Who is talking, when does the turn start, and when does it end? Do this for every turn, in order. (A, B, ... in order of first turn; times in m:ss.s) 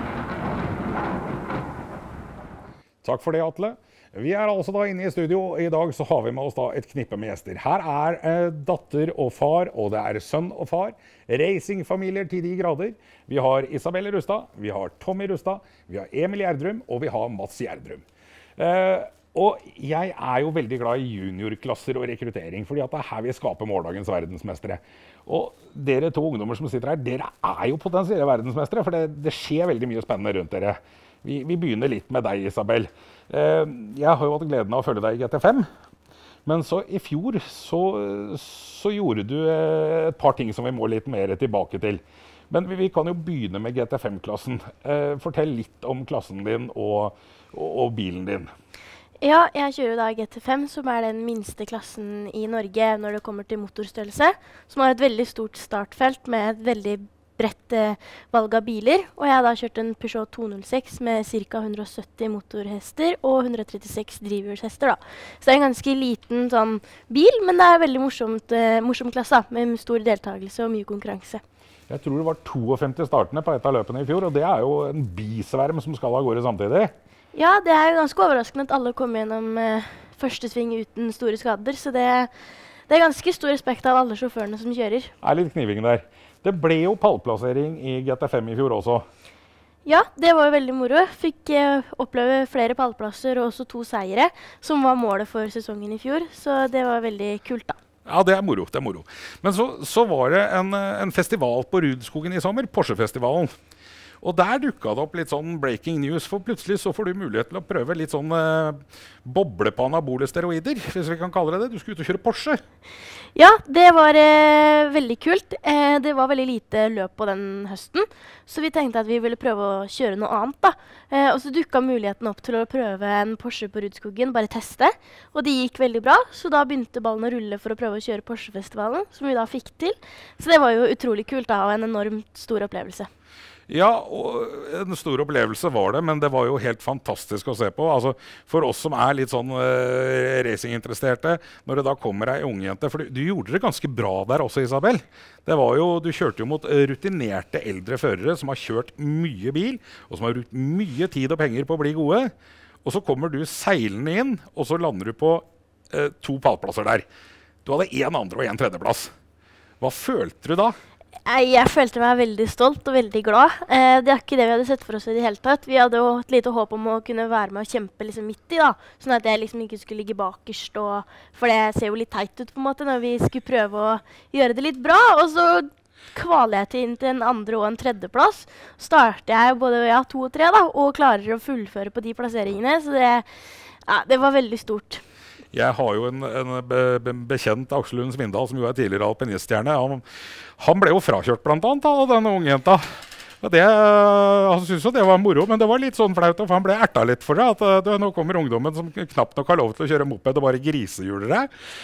0:03.0-0:18.0 A
0:18.6-0:35.7 A
0:36.5-0:48.5 A
0:49.2-1:11.4 B
1:11.9-1:16.9 A
1:17.3-1:22.3 B
1:22.9-1:25.1 B
1:25.2-1:29.0 A
1:29.9-1:37.8 B
1:38.1-1:43.5 A
1:44.2-1:52.6 A
1:53.4-2:13.1 B
2:13.7-2:32.3 A
2:32.8-2:37.1 A
2:37.6-2:39.1 A
2:39.8-2:40.8 A
2:41.3-3:03.3 B
3:03.9-3:05.0 B
3:05.5-3:10.0 A
3:10.6-3:21.5 A